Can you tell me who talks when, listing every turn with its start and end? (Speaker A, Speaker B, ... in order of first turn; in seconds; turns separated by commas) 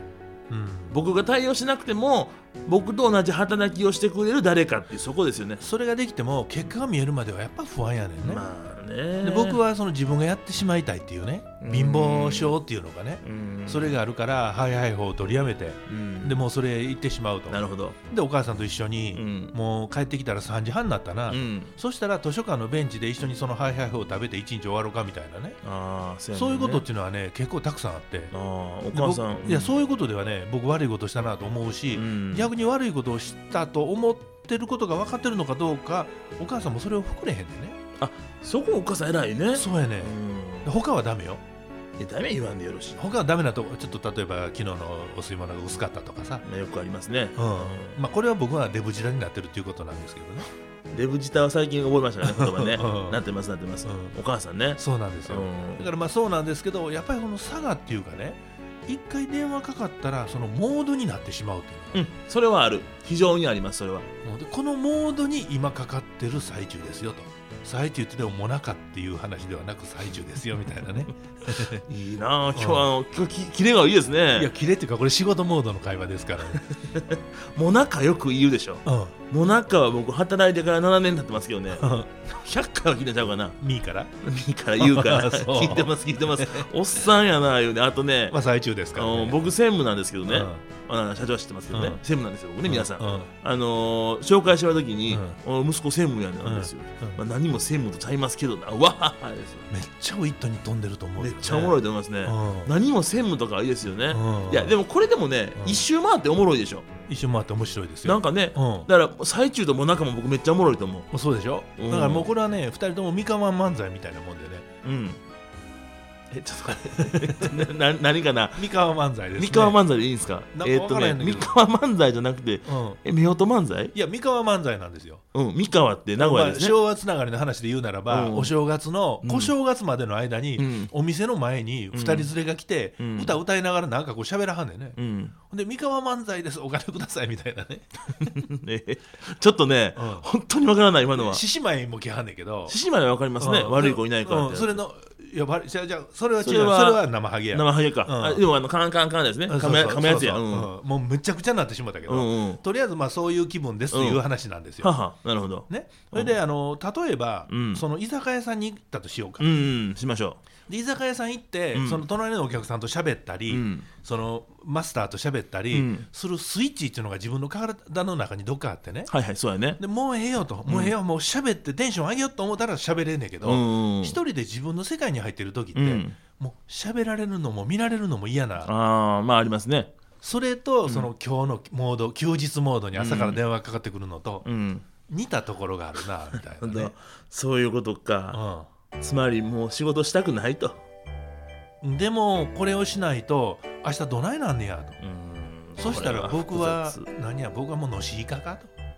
Speaker A: 0.5-1.0, Speaker B: 0.9-5.6, Speaker A: 5.6-8.4, Speaker B: 8.2-9.6, Speaker A: 9.2-25.6, Speaker B: 11.6-12.6, Speaker B: 13.2-14.0, Speaker B: 15.9-16.4, Speaker B: 17.5-18.0, Speaker B: 19.1-19.6, Speaker B: 21.3-21.7, Speaker B: 25.6-26.9, Speaker A: 26.3-28.3, Speaker B: 28.3-29.7, Speaker A: 28.9-37.8, Speaker B: 31.9-32.5, Speaker B: 38.0-40.7, Speaker A: 39.5-41.4, Speaker B: 42.0-43.0, Speaker A: 43.0-46.5, Speaker B: 46.4-48.0, Speaker A: 47.4-50.5, Speaker B: 50.9-55.9, Speaker A: 52.2-53.2, Speaker A: 53.9-54.2, Speaker A: 54.8-62.1, Speaker B: 61.9-64.0, Speaker A: 64.2-71.8, Speaker B: 71.9-74.5, Speaker A: 72.5-72.9, Speaker A: 74.4-76.7, Speaker B: 76.9-83.6, Speaker A: 78.8-79.1, Speaker A: 81.8-82.1, Speaker A: 83.6-84.1, Speaker B: 84.2-88.4, Speaker A: 84.8-86.7, Speaker A: 88.3-89.5, Speaker B: 88.9-99.7, Speaker A: 90.3-90.6, Speaker A: 91.7-92.0, Speaker A: 92.7-93.3, Speaker A: 95.1-95.4, Speaker A: 96.4-97.2, Speaker A: 99.7-102.7, Speaker B: 101.2-106.8, Speaker A: 104.1-104.8, Speaker A: 105.5-105.8, Speaker A: 107.1-108.9, Speaker B: 108.0-111.1, Speaker A: 111.1-114.7, Speaker B: 111.8-112.3, Speaker B: 114.8-115.2, Speaker B: 116.3-118.7, Speaker A: 116.9-117.5, Speaker A: 118.6-119.8, Speaker B: 119.4-123.9, Speaker A: 120.5-121.5, Speaker A: 122.7-123.0, Speaker A: 123.9-125.2, Speaker B: 125.3-126.8, Speaker A: 126.2-135.0, Speaker B: 128.1-128.5, Speaker B: 129.2-129.5, Speaker B: 130.6-130.9, Speaker B: 131.9-132.3, Speaker B: 133.0-133.3, Speaker B: 135.0-135.3, Speaker A: 135.5-138.3, Speaker B: 138.2-141.4, Speaker A: 140.0-140.3, Speaker A: 141.2-142.8, Speaker B: 142.7-144.8, Speaker A: 143.4-148.4, Speaker B: 146.4-150.7, Speaker A: 149.5-155.0, Speaker B: 152.1-152.6, Speaker B: 153.9-154.2, Speaker B: 154.8-156.4, Speaker A: 155.7-159.5, Speaker B: 157.5-157.8, Speaker B: 159.4-160.4, Speaker A: 160.7-169.1, Speaker B: 161.7-162.1, Speaker B: 163.5-163.9, Speaker B: 165.7-166.1, Speaker B: 169.1-169.8, Speaker A: 169.8-178.7, Speaker B: 170.7-170.9, Speaker B: 173.4-174.2, Speaker B: 175.8-176.2, Speaker B: 178.6-179.9, Speaker A: 180.2-184.5, Speaker B: 182.9-183.4, Speaker B: 184.4-184.8, Speaker A: 185.1-186.9, Speaker B: 186.6-188.4, Speaker A: 188.3-188.7, Speaker B: 189.0-190.8, Speaker A: 191.8-195.0, Speaker B: 195.0-197.1, Speaker A: 195.8-198.7